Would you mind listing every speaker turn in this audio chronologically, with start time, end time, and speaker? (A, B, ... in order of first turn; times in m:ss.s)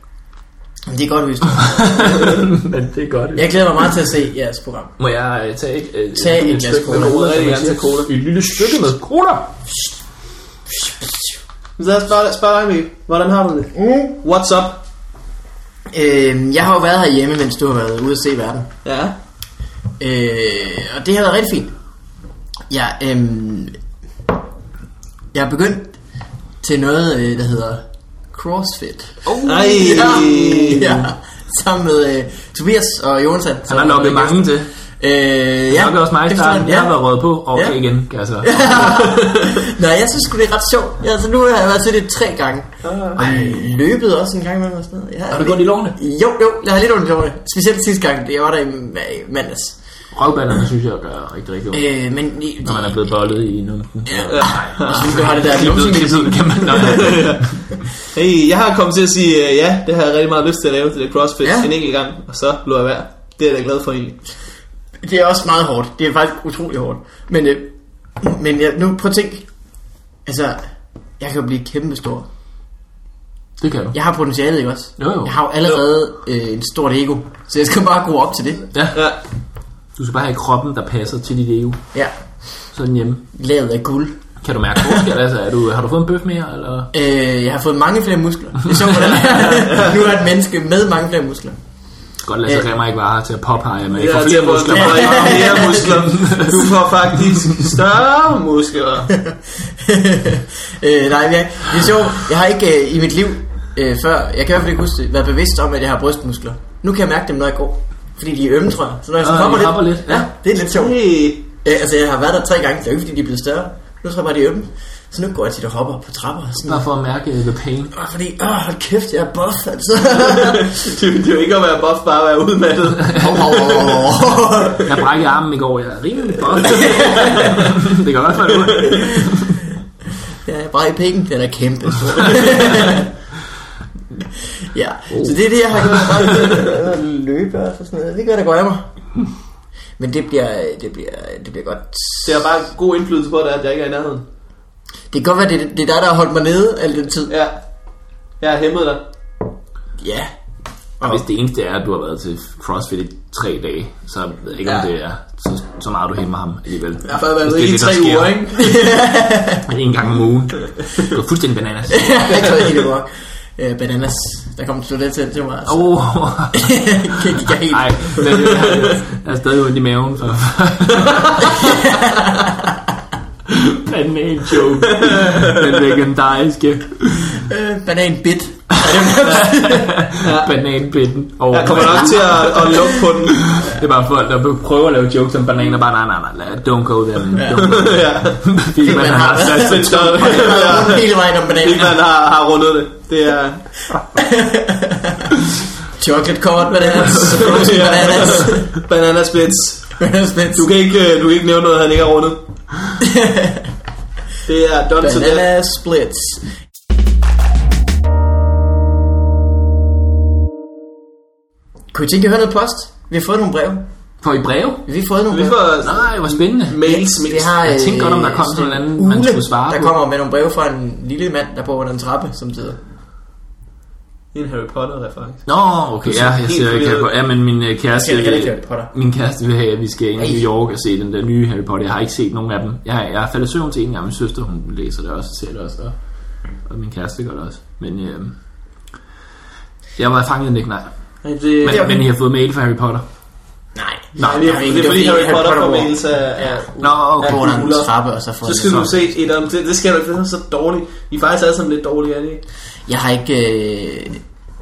0:00.9-0:02.5 A
0:01.7-0:03.9 B
0:03.4-0:05.0 A
0:05.0-0:09.6 B
0:06.1-0:07.2 A
0:06.9-0:08.1 C
0:11.8-0:14.8 C
0:13.8-0:14.2 A
0:15.9-0:18.7 A
0:18.8-0:19.2 C
0:20.0-0:21.7 A
0:22.7-0:23.8 A
0:25.3-0:26.0 A
0:26.6-0:37.8 A
0:29.2-0:30.3 B
0:29.4-0:31.0 C
0:33.7-0:34.7 B
0:35.7-0:39.1 B
0:38.4-0:49.8 A
0:38.9-0:39.6 C
0:42.8-0:43.6 C
0:43.2-0:43.6 B
0:45.3-0:46.0 B
0:50.1-0:51.9 B
0:51.7-0:53.1 A
0:52.6-0:57.7 B
0:54.1-0:57.0 A
0:54.3-0:55.3 C
0:56.8-1:04.2 C
1:01.4-1:01.7 A
1:05.0-1:09.5 A
1:10.3-1:12.3 A
1:13.6-1:14.0 B
1:13.9-1:18.7 A
1:15.0-1:15.3 B
1:18.7-1:19.1 B
1:18.9-1:19.2 C
1:20.0-1:21.8 B
1:22.7-1:23.2 B
1:23.3-1:24.2 A
1:24.4-1:26.9 B
1:26.9-1:31.6 A
1:29.5-1:30.0 C
1:32.2-1:37.8 B
1:34.0-1:39.1 C
1:34.7-1:35.9 A
1:39.1-1:51.0 A
1:49.2-1:50.3 B
1:50.2-1:51.4 C
1:51.6-1:56.9 A
1:56.6-1:57.9 B
1:57.9-2:00.8 A
2:00.2-2:04.2 C
2:03.1-2:04.9 A
2:04.8-2:09.6 B
2:06.6-2:07.6 A
2:06.7-2:07.8 C
2:08.6-2:09.0 C
2:09.1-2:09.4 A
2:10.4-2:13.1 A
2:14.7-2:18.9 A
2:15.1-2:16.2 B
2:20.0-2:22.5 A
2:22.2-2:24.2 C
2:25.1-2:27.3 A
2:27.3-2:27.6 C
2:28.4-2:29.0 C
2:30.0-2:30.3 A
2:31.0-2:38.5 B
2:37.1-2:38.8 C
2:38.6-2:39.7 A
2:39.6-2:42.3 B
2:41.9-2:45.9 A
2:45.7-2:51.9 B
2:46.5-2:48.7 A
2:48.3-2:48.9 C
2:51.4-2:52.8 A
2:53.5-2:57.5 B
2:54.9-2:55.6 C
2:57.3-3:00.0 A
2:58.8-3:10.6 B
3:00.2-3:00.5 C
3:01.5-3:03.5 C
3:07.4-3:07.7 A
3:07.5-3:13.6 C
3:08.8-3:12.0 A
3:14.1-3:15.3 A
3:16.0-3:18.7 A
3:17.0-3:20.0 C
3:17.0-3:17.6 B
3:20.0-3:20.7 A
3:20.6-3:22.4 C
3:23.0-3:23.7 A
3:24.5-3:25.5 C
3:25.0-3:26.5 A
3:31.9-3:33.8 A
3:34.2-3:34.8 B
3:34.9-3:35.7 A
3:35.3-3:37.5 C
3:35.8-3:36.8 B
3:36.8-3:42.8 A
3:37.5-3:39.9 B
3:44.3-3:45.5 C
3:45.5-3:56.0 B
3:46.0-3:47.1 C
3:47.9-3:48.9 A
3:56.7-3:58.4 B
4:00.0-4:00.9 B
4:01.2-4:01.9 C
4:01.6-4:03.0 B
4:01.7-4:02.0 A
4:03.8-4:09.0 A
4:04.2-4:04.7 B
4:04.2-4:07.9 C
4:06.8-4:07.5 B
4:08.4-4:12.4 C
4:12.9-4:14.2 A